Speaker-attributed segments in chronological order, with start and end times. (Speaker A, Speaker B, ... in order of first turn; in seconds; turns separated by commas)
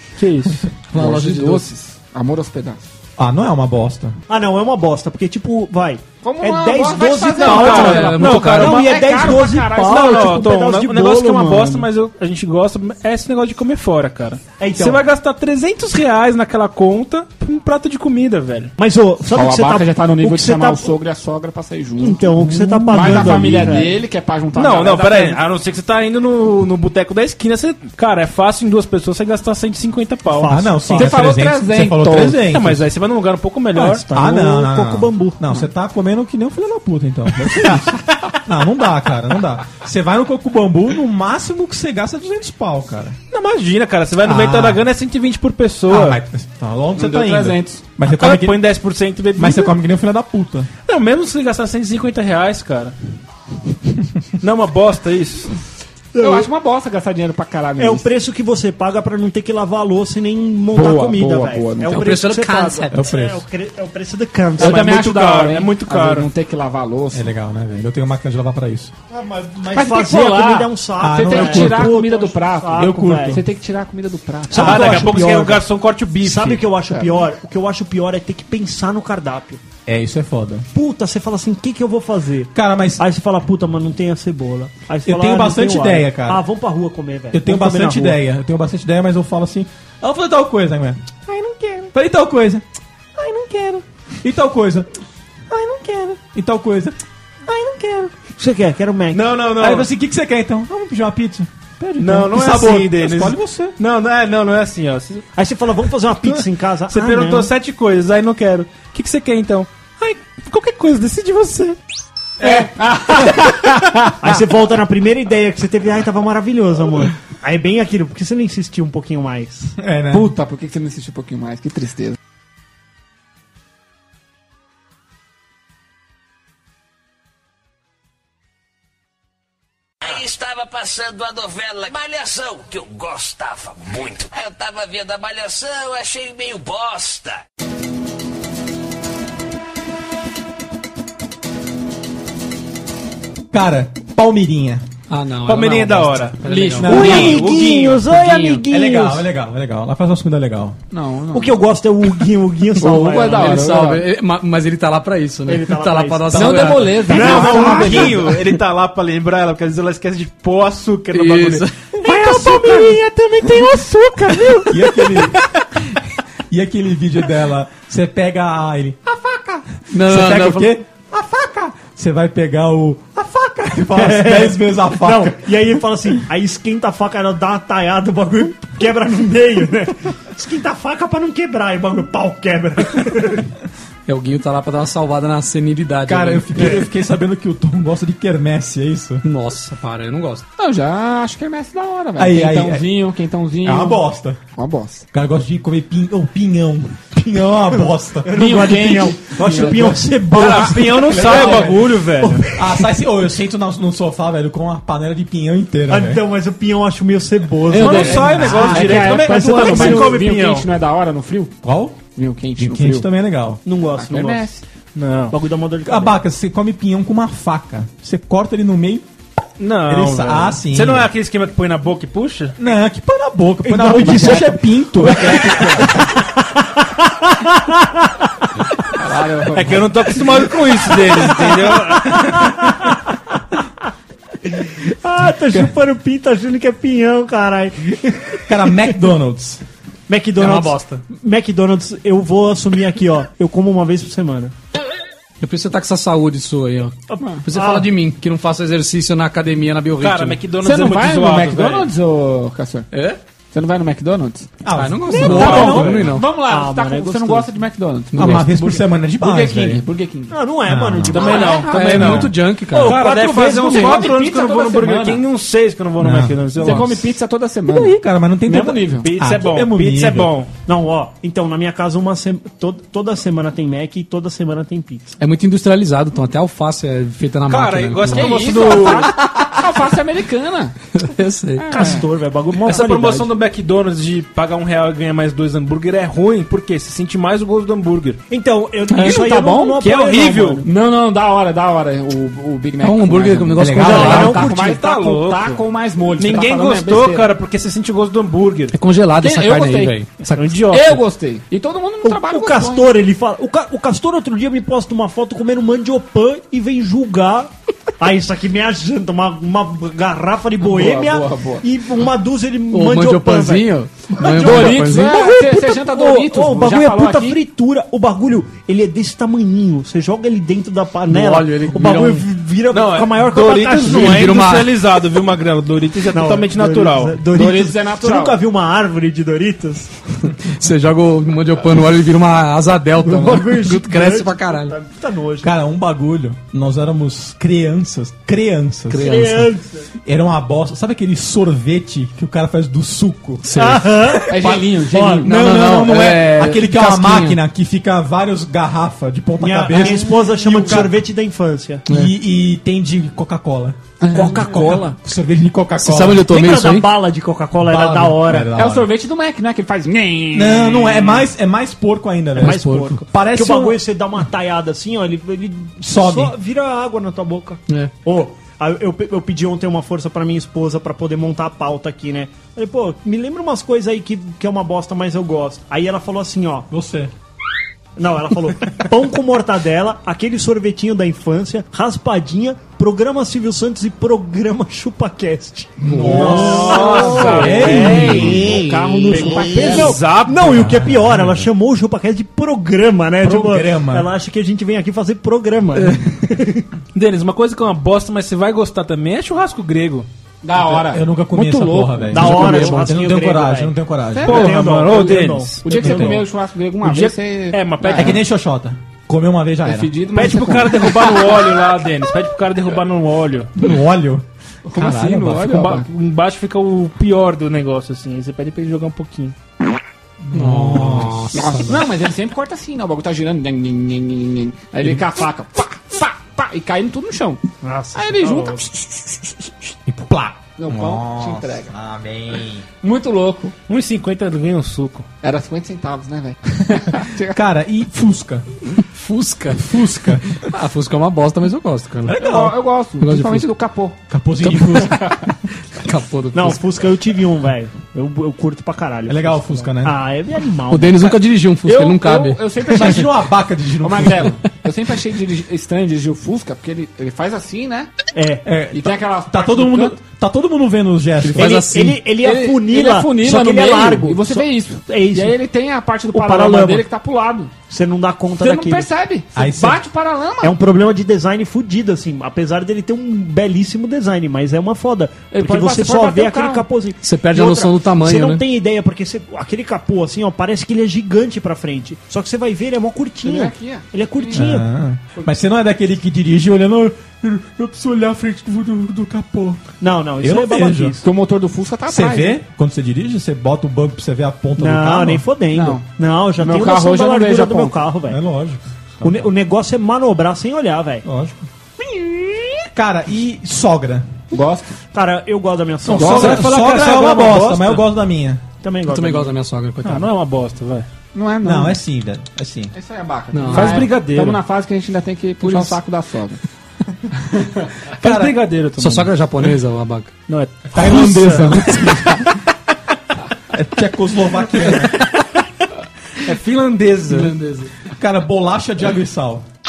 Speaker A: 0.2-0.7, Speaker B: 0.9-1.7, Speaker C: 0.9-2.8, Speaker D: 3.2-4.2, Speaker E: 4.3-11.9, Speaker C: 6.2-10.5, Speaker A: 7.4-18.7, Speaker B: 7.5-8.8, Speaker E: 14.6-15.1, Speaker E: 18.8-20.9, Speaker C: 19.3-22.3, Speaker E: 22.0-24.0, Speaker C: 22.9-25.4, Speaker A: 24.6-30.6, Speaker E: 30.3-31.3, Speaker D: 30.5-32.9, Speaker C: 30.9-32.4, Speaker A: 32.5-34.1, Speaker E: 33.8-35.4, Speaker D: 34.1-43.2, Speaker A: 43.3-46.2, Speaker D: 44.2-44.8, Speaker D: 45.9-48.6, Speaker C: 47.0-47.8, Speaker A: 48.0-49.8, Speaker D: 49.4-50.7, Speaker A: 50.9-53.0, Speaker A: 54.4-55.5, Speaker E: 56.1-56.5, Speaker C: 56.2-58.1, Speaker E: 57.8-65.1, Speaker C: 60.7-62.1, Speaker B: 61.9-63.1, Speaker D: 62.9-63.5, Speaker C: 64.6-67.3, Speaker A: 64.6-66.3, Speaker D: 67.1-68.9, Speaker E: 69.1-73.4, Speaker C: 69.7-75.0, Speaker D: 71.0-72.0, Speaker D: 72.8-73.4, Speaker E: 74.5-75.7, Speaker A: 74.5-76.6, Speaker D: 74.6-75.1, Speaker E: 76.2-79.6, Speaker C: 76.9-77.2, Speaker D: 79.9-80.7, Speaker E: 80.7-88.2, Speaker D: 82.5-83.0, Speaker D: 85.0-86.4, Speaker D: 87.3-91.0, Speaker E: 91.3-91.9, Speaker D: 91.9-92.6, Speaker D: 93.2-94.9, Speaker D: 95.5-98.1, Speaker E: 98.4-99.5, Speaker D: 99.1-103.8, Speaker A: 99.4-99.9, Speaker A: 102.0-105.3, Speaker E: 105.4-107.5, Speaker A: 106.9-111.8, Speaker C: 112.4-114.2, Speaker E: 114.2-119.8, Speaker D: 119.8-120.3, Speaker C: 120.1-122.2, Speaker F: 130.0-137.4, Speaker D: 143.5-144.8, Speaker B: 145.1-148.6, Speaker A: 145.5-146.4, Speaker C: 146.4-147.3, Speaker D: 146.8-147.4, Speaker E: 146.8-149.2, Speaker A: 146.9-148.0, Speaker D: 148.7-150.8, Speaker C: 150.9-151.6, Speaker E: 151.3-153.6, Speaker C: 152.8-154.1, Speaker B: 153.3-157.0, Speaker E: 155.5-157.9, Speaker C: 156.3-158.2, Speaker D: 156.4-158.6, Speaker A: 157.1-165.2, Speaker B: 161.1-161.9, Speaker E: 162.1-162.9, Speaker D: 164.7-165.4, Speaker D: 166.5-175.5, Speaker B: 169.9-170.8, Speaker E: 173.9-183.5, Speaker B: 184.1-186.8, Speaker D: 186.1-189.2, Speaker B: 189.2-190.4, Speaker C: 190.6-195.1, Speaker D: 192.2-192.9, Speaker D: 193.6-194.4, Speaker D: 195.1-198.6, Speaker E: 197.8-201.7, Speaker C: 198.3-200.6, Speaker A: 200.3-202.5, Speaker D: 200.9-206.2, Speaker C: 201.2-201.7, Speaker E: 205.9-210.3, Speaker C: 207.7-211.5, Speaker A: 207.7-210.7, Speaker D: 208.5-208.9, Speaker D: 211.6-212.0, Speaker C: 212.2-213.1, Speaker D: 212.6-213.6, Speaker E: 213.7-214.5, Speaker C: 213.9-214.6, Speaker A: 214.9-215.3, Speaker E: 215.3-216.2, Speaker D: 215.8-219.1, Speaker A: 219.6-222.6, Speaker D: 219.8-221.1, Speaker D: 222.6-225.8, Speaker E: 223.6-228.3, Speaker C: 223.9-226.0, Speaker C: 229.0-230.2, Speaker A: 229.5-232.3, Speaker E: 232.1-233.2, Speaker E: 234.4-238.9, Speaker D: 238.5-239.6, Speaker E: 240.1-244.5, Speaker B: 245.4-250.4, Speaker E: 247.1-247.9, Speaker C: 247.2-247.4, Speaker A: 250.0-251.9, Speaker C: 250.6-252.9, Speaker B: 252.9-253.2, Speaker C: 253.5-254.5, Speaker D: 254.6-256.1, Speaker B: 254.7-256.2, Speaker E: 255.1-257.5, Speaker C: 255.3-260.4, Speaker A: 255.5-255.9, Speaker B: 258.1-258.5, Speaker D: 258.1-259.8, Speaker E: 260.3-261.8, Speaker D: 260.7-261.2, Speaker A: 261.1-267.0, Speaker C: 261.1-262.3, Speaker B: 261.7-263.1, Speaker E: 262.7-264.1, Speaker C: 263.2-265.2, Speaker D: 266.0-266.4, Speaker C: 266.6-269.1, Speaker D: 267.7-270.3, Speaker A: 269.0-270.5, Speaker E: 270.7-275.2, Speaker B: 275.2-279.0, Speaker A: 277.5-279.1, Speaker C: 278.1-280.8, Speaker B: 281.0-282.0, Speaker C: 281.6-282.0, Speaker E: 281.7-283.3, Speaker A: 282.6-288.2, Speaker E: 288.3-290.7, Speaker B: 288.9-289.2, Speaker C: 289.0-289.9, Speaker A: 289.8-290.6, Speaker C: 290.6-297.3, Speaker B: 292.8-294.4, Speaker D: 293.6-294.4, Speaker E: 293.8-295.0, Speaker A: 294.6-295.6, Speaker A: 296.2-298.8, Speaker B: 298.7-300.6, Speaker C: 299.2-300.0, Speaker A: 300.3-301.0, Speaker C: 300.6-302.9, Speaker E: 302.0-324.4, Speaker C: 310.6-311.6, Speaker B: 312.7-315.3, Speaker C: 314.2-317.4, Speaker B: 321.1-322.3, Speaker A: 322.7-327.2, Speaker B: 323.8-324.8, Speaker E: 326.1-329.9, Speaker C: 327.3-328.4, Speaker B: 330.4-334.8, Speaker E: 333.0-335.5, Speaker D: 335.4-339.3, Speaker B: 338.9-339.5, Speaker E: 339.0-339.9, Speaker D: 340.1-344.7, Speaker B: 343.4-343.9, Speaker E: 343.6-345.2, Speaker C: 344.3-345.4, Speaker D: 345.2-351.0, Speaker B: 345.2-347.4, Speaker E: 349.4-351.9, Speaker B: 351.9-352.1, Speaker D: 351.9-353.8, Speaker C: 354.0-354.8, Speaker E: 354.1-355.0, Speaker D: 354.4-356.3, Speaker B: 355.8-356.9, Speaker E: 356.3-358.5, Speaker D: 357.6-358.9, Speaker C: 358.6-361.2, Speaker D: 360.3-363.8, Speaker E: 362.4-376.7, Speaker B: 362.4-362.8, Speaker D: 365.8-366.3, Speaker D: 376.7-377.1, Speaker E: 378.0-396.7, Speaker B: 385.9-386.7, Speaker D: 385.9-388.6, Speaker A: 386.1-388.4, Speaker C: 386.3-390.0, Speaker A: 389.1-390.8, Speaker D: 390.5-391.4, Speaker D: 393.2-394.1, Speaker B: 395.8-396.0, Speaker A: 396.9-400.1, Speaker C: 400.4-402.8, Speaker D: 400.6-404.6, Speaker E: 402.1-406.2, Speaker C: 404.1-408.2, Speaker A: 404.2-406.1, Speaker D: 405.7-406.2, Speaker A: 406.8-408.2, Speaker D: 407.9-409.9, Speaker C: 409.6-411.4, Speaker A: 410.1-413.5, Speaker D: 413.6-415.4, Speaker C: 414.7-415.9, Speaker A: 415.4-419.4, Speaker D: 420.2-421.3, Speaker B: 420.3-421.9, Speaker C: 421.3-427.4, Speaker E: 427.6-428.6, Speaker C: 427.9-429.5, Speaker D: 429.9-432.6, Speaker C: 430.6-431.8, Speaker C: 432.8-433.5, Speaker A: 433.7-435.1, Speaker C: 435.2-437.4, Speaker D: 437.3-438.5, Speaker B: 438.9-442.2, Speaker D: 439.6-440.3, Speaker D: 442.1-442.6, Speaker C: 442.2-444.0, Speaker B: 443.0-443.5, Speaker D: 444.1-445.0, Speaker B: 444.4-445.0, Speaker C: 444.9-445.2, Speaker B: 445.8-446.6, Speaker E: 446.3-451.2, Speaker D: 449.1-450.0, Speaker B: 450.7-452.4, Speaker C: 451.6-453.1, Speaker D: 452.7-454.4, Speaker C: 453.8-457.9, Speaker E: 458.1-458.5, Speaker D: 458.4-461.8, Speaker C: 458.7-460.0, Speaker B: 461.2-462.0, Speaker E: 461.4-465.4, Speaker C: 462.2-467.5, Speaker E: 466.1-466.9, Speaker E: 467.7-468.9, Speaker C: 468.4-470.6, Speaker D: 469.4-469.8, Speaker E: 470.4-484.7, Speaker C: 475.3-476.7, Speaker B: 477.0-478.4, Speaker C: 483.2-484.5, Speaker D: 484.3-489.6, Speaker E: 489.8-491.0, Speaker D: 490.2-491.0, Speaker C: 491.0-492.4, Speaker D: 491.9-495.2, Speaker E: 494.6-498.2, Speaker C: 495.5-495.9, Speaker C: 496.4-497.8, Speaker D: 498.1-499.3, Speaker E: 499.0-501.1, Speaker D: 501.1-501.5, Speaker D: 502.7-504.1, Speaker C: 504.3-504.8, Speaker E: 504.9-506.6, Speaker D: 505.9-508.4, Speaker C: 505.9-506.5, Speaker A: 506.1-507.8, Speaker E: 508.6-509.3, Speaker B: 508.9-510.1, Speaker A: 509.8-510.9, Speaker C: 511.1-511.8, Speaker D: 511.4-512.7, Speaker C: 512.7-516.4, Speaker B: 513.3-513.9, Speaker A: 513.5-514.4, Speaker C: 517.2-517.7, Speaker A: 518.0-519.1, Speaker D: 518.0-518.4, Speaker B: 518.8-520.1, Speaker A: 520.3-521.9, Speaker D: 520.7-522.1, Speaker D: 523.5-525.0, Speaker A: 526.2-527.4, Speaker B: 527.1-527.7, Speaker D: 528.0-529.5